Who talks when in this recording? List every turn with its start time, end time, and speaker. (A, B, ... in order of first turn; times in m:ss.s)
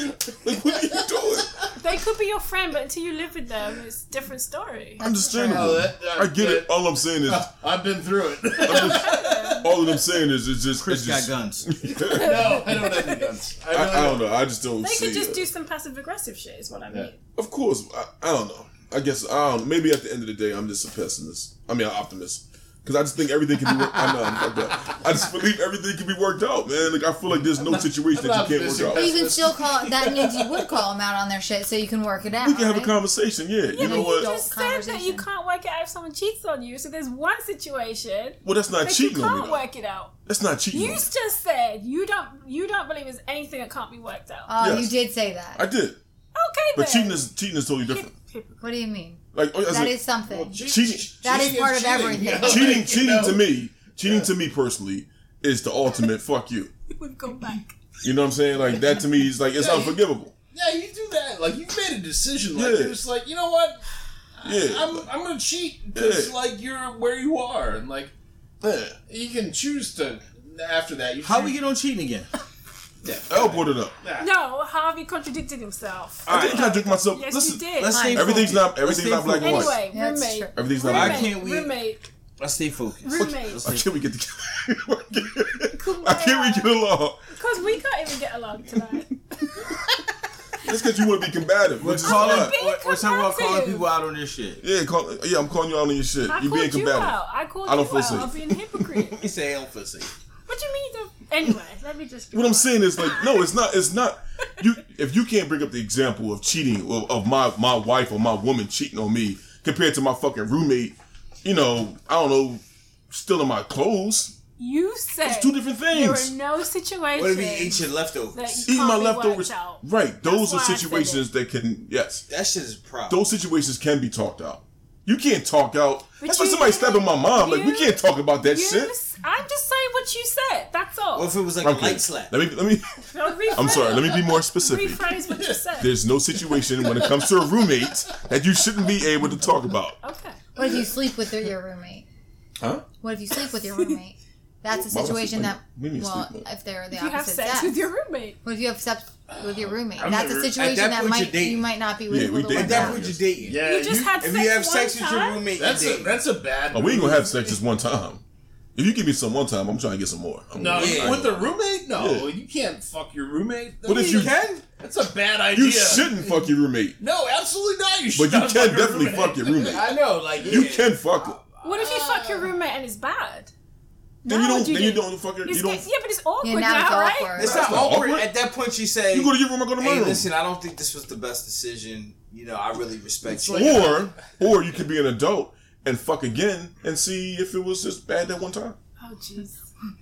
0:00.2-0:01.6 A
0:01.8-0:05.0 B
0:05.0-0:07.5 A
0:05.2-0:05.6 C
0:05.4-0:09.9 D
0:08.6-0:12.6 A
0:08.7-0:09.7 B
0:10.8-0:11.6 E
0:12.0-0:13.3 B
0:12.1-0:14.3 D
0:13.7-0:15.4 A
0:14.8-0:17.2 B
0:17.4-0:29.2 A
0:23.7-0:24.2 D
0:27.5-0:30.6 D
0:28.9-0:33.0 C
0:32.4-0:34.3 A
0:33.7-0:40.2 B
0:33.7-0:35.2 C
0:38.4-0:39.6 A
0:40.2-0:41.1 A
0:40.7-0:44.5 B
0:44.5-0:45.6 C
0:44.6-0:45.0 A
0:45.6-0:46.0 A
0:46.3-0:47.2 B
0:46.7-0:48.1 A
0:47.8-0:48.6 B
0:48.6-0:50.6 C
0:49.3-0:50.0 A
0:50.2-0:53.5 D
0:50.6-0:51.6 A
0:51.2-0:52.9 C
0:52.4-0:56.7 A
0:54.0-0:54.3 D
0:56.9-0:57.8 B
0:58.0-1:00.3 A
0:59.6-1:00.0 D
1:00.5-1:03.8 D
1:02.5-1:03.0 A
1:04.4-1:08.1 D
1:04.4-1:05.0 A
1:05.9-1:06.3 A
1:08.6-1:09.0 A
1:09.1-1:11.6 D
1:11.2-1:12.3 E
1:13.0-1:14.3 D
1:13.3-1:14.0 A
1:14.2-1:18.1 B
1:16.2-1:19.8 A
1:16.3-1:16.7 E
1:17.8-1:19.8 E
1:17.9-1:18.5 C
1:19.4-1:22.1 B
1:19.8-1:20.5 C
1:20.5-1:21.4 A
1:20.8-1:21.7 E
1:22.4-1:23.8 E
1:23.0-1:23.7 B
1:23.2-1:27.2 A
1:25.7-1:26.8 B
1:27.3-1:29.9 B
1:30.6-1:32.6 A
1:31.8-1:34.6 E
1:32.0-1:33.8 B
1:34.6-1:39.2 A
1:36.3-1:39.2 B
1:39.2-1:40.1 E
1:40.5-1:43.5 B
1:42.3-1:54.3 A
1:54.6-2:01.2 B
1:55.2-1:56.3 A
1:57.1-1:58.6 E
1:58.6-2:02.2 A
2:02.3-2:03.2 E
2:03.1-2:08.9 A
2:06.2-2:11.3 B
2:11.1-2:12.3 E
2:11.6-2:15.0 A
2:13.0-2:16.0 B
2:15.3-2:15.6 D
2:15.8-2:20.0 A
2:16.4-2:18.0 D
2:20.0-2:20.4 B
2:20.6-2:22.0 C
2:20.6-2:20.8 D
2:22.6-2:22.8 A
2:23.0-2:27.8 C
2:24.7-2:26.5 A
2:26.9-2:28.4 B
2:28.4-2:33.1 C
2:29.3-2:30.6 D
2:30.5-2:31.7 E
2:32.1-2:33.3 A
2:32.5-2:33.6 E
2:33.4-2:34.2 D
2:33.6-2:35.4 B
2:34.2-2:36.2 E
2:35.5-2:37.6 D
2:36.7-2:38.2 A
2:38.7-2:42.3 A
2:40.5-2:50.8 D
2:40.7-2:41.2 E
2:43.8-2:44.4 A
2:43.9-2:44.6 E
2:45.5-2:47.0 A
2:48.1-2:51.4 A
2:50.4-2:51.3 E
2:51.6-2:52.5 D
2:51.6-2:53.5 B
2:54.2-2:55.8 A
2:54.3-2:57.3 B
2:56.4-2:57.8 C
2:57.4-2:58.3 A
2:57.4-3:03.9 E
2:59.1-3:00.3 A
3:03.3-3:04.3 D
3:03.5-3:08.8 A
3:09.0-3:09.6 B